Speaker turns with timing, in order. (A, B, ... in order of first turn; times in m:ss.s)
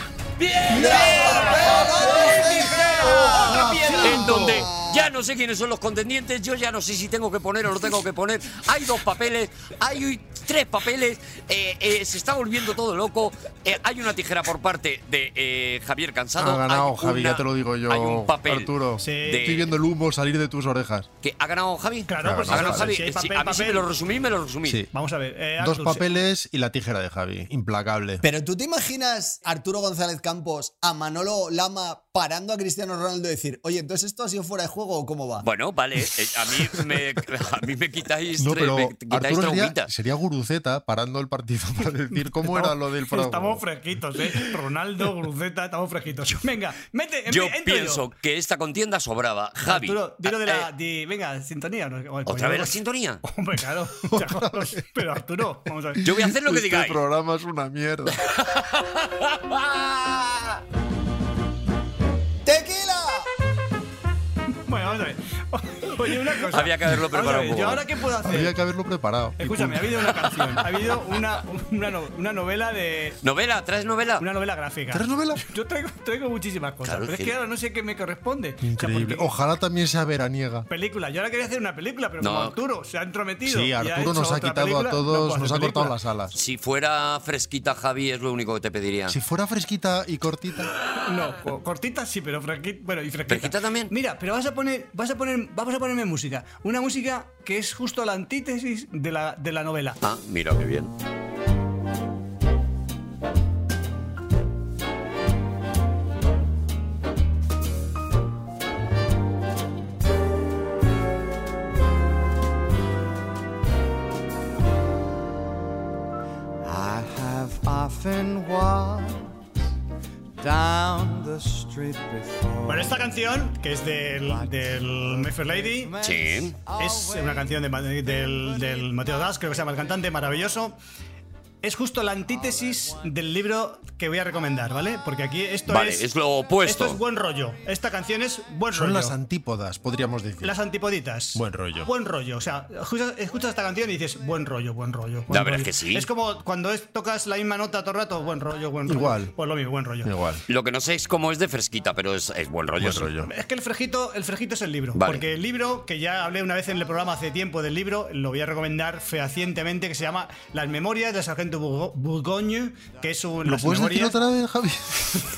0:00.4-0:18.7 A
0:00.7-0:05.1 B
0:00.9-0:01.2 C
0:03.1-0:04.3 C
0:04.0-0:04.5 D
0:16.4-0:21.1 D
0:19.0-0:19.5 C
0:19.2-0:19.7 A
0:21.2-0:24.8 A
0:22.1-0:23.9 C
0:22.2-0:22.9 D
0:24.6-0:24.9 D
0:24.9-0:26.2 C
0:25.6-0:28.2 D
0:28.2-0:35.5 B
0:35.4-0:39.9 A
0:38.4-0:43.6 D
0:42.1-0:48.0 C
0:47.3-0:50.7 A
0:49.7-0:56.0 C
0:52.3-0:53.2 A
0:54.1-0:54.9 D
0:56.0-0:58.2 D
0:56.0-0:57.0 A
0:58.2-1:00.6 A
1:02.4-1:03.3 B
1:04.7-1:08.5 C
1:06.5-1:07.9 A
1:08.2-1:10.2 D
1:09.4-1:13.2 C
1:13.2-1:14.2 A
1:14.2-1:19.3 C
1:14.9-1:15.4 D
1:16.8-1:17.4 A
1:18.6-1:20.7 D
1:20.7-1:26.0 C
1:22.2-1:22.6 A
1:23.4-1:26.4 D
1:26.3-1:29.2 A
1:29.1-1:30.7 D
1:31.0-1:40.0 C
1:33.3-1:33.9 A
1:40.0-1:40.9 A
1:56.9-1:59.1 E
2:00.4-2:02.1 E
2:02.6-2:06.0 C
2:06.0-2:06.6 A
2:06.7-2:10.8 C
2:11.6-2:16.1 C
2:15.7-2:17.0 A
2:16.6-2:19.2 C
2:18.7-2:20.6 D
2:20.4-2:30.1 C
2:21.3-2:21.9 D
2:25.3-2:26.1 A
2:28.9-2:29.3 D
2:30.0-2:30.4 D
2:30.5-2:33.2 A
2:32.8-2:33.3 D
2:33.2-2:44.2 C
2:35.0-2:35.2 A
2:43.4-2:45.3 D